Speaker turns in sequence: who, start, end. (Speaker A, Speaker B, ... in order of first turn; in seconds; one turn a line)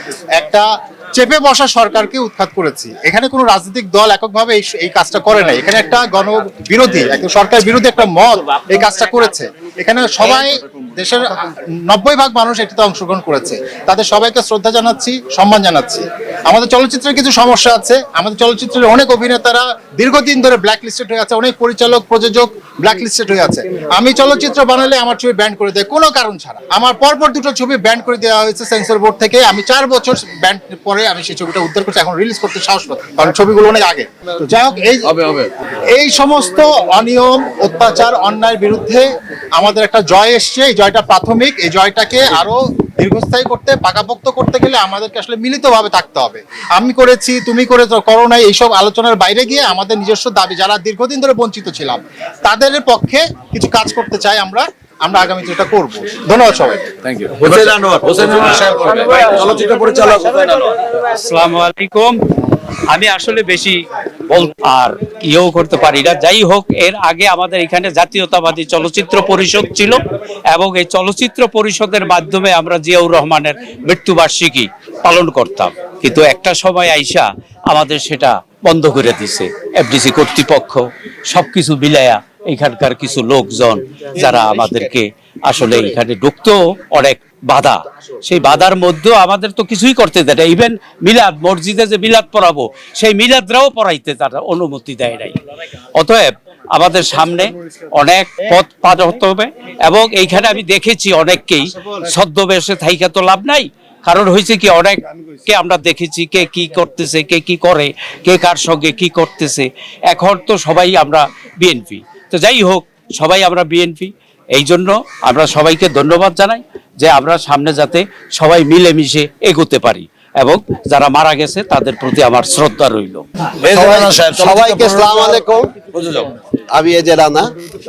Speaker A: 0.3-35.1
Speaker B: 35.1-35.5
Speaker A: 35.9-56.9
Speaker B: 57.0-60.7
Speaker C: 60.9-62.2
Speaker C: 62.9-95.4
Speaker C: 95.9-123.3
Speaker B: 123.6-125.2
Speaker D: 123.6-125.7
Speaker B: 126.0-126.3
Speaker D: 126.7-127.5